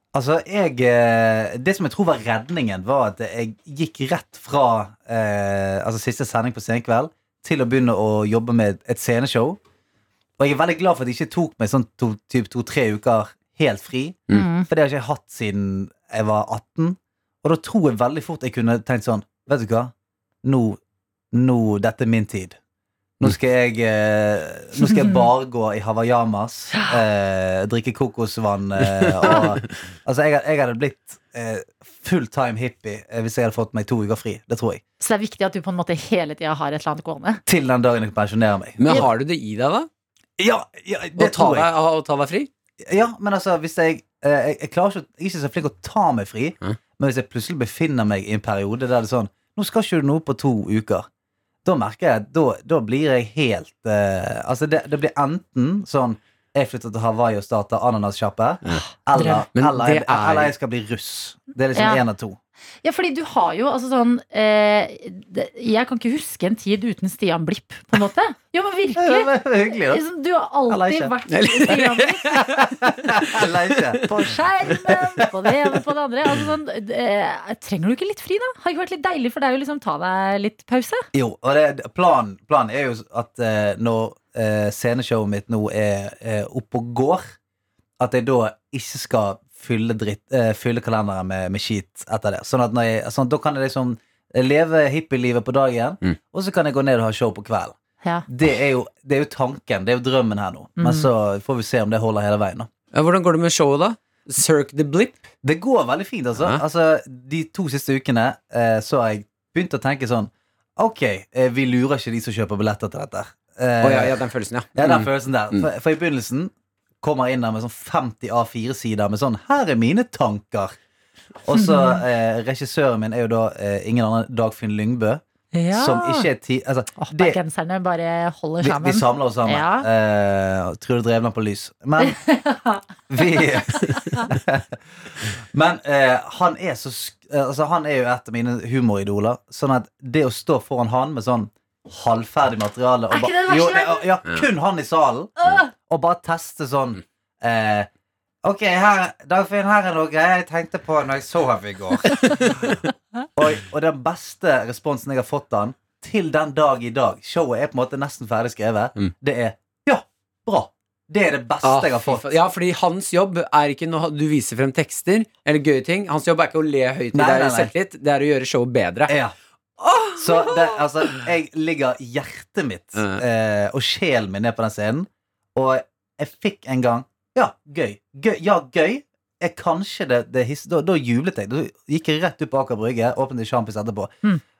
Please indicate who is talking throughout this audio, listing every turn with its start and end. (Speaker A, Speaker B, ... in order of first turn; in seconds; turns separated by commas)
Speaker A: 0.1-9.6, Speaker A: 10.4-19.9, Speaker B: 14.3-14.7, Speaker A: 20.4-20.8, Speaker A: 21.3-22.6, Speaker A: 23.2-34.8, Speaker B: 24.9-25.2, Speaker B: 35.0-37.4, Speaker A: 37.5-39.1, Speaker C: 38.8-39.9, Speaker A: 40.4-41.7, Speaker C: 41.2-42.5, Speaker A: 42.8-51.1, Speaker A: 51.6-62.4, Speaker B: 59.1-59.4, Speaker C: 59.5-60.5, Speaker B: 61.7-62.0, Speaker B: 62.8-72.5, Speaker A: 69.0-70.0, Speaker A: 70.7-71.1, Speaker C: 71.3-73.5, Speaker A: 72.4-75.2, Speaker B: 74.1-81.0, Speaker A: 81.1-87.3, Speaker A: 88.0-97.8, Speaker A: 98.3-102.7, Speaker B: 100.8-101.1, Speaker C: 102.9-105.3, Speaker A: 105.4-114.2, Speaker C: 113.8-115.7, Speaker A: 114.8-120.8, Speaker A: 121.4-127.4, Speaker B: 121.5-122.0, Speaker B: 125.5-126.3, Speaker B: 127.0-129.9, Speaker A: 128.6-132.2, Speaker B: 132.0-132.8, Speaker A: 133.1-147.9, Speaker B: 143.1-144.1, Speaker A: 148.4-152.6, Speaker C: 152.2-152.8, Speaker A: 153.3-162.3, Speaker C: 161.6-169.1, Speaker A: 167.1-167.7, Speaker A: 169.1-169.3, Speaker C: 169.8-170.8, Speaker A: 170.1-184.1, Speaker C: 172.9-173.2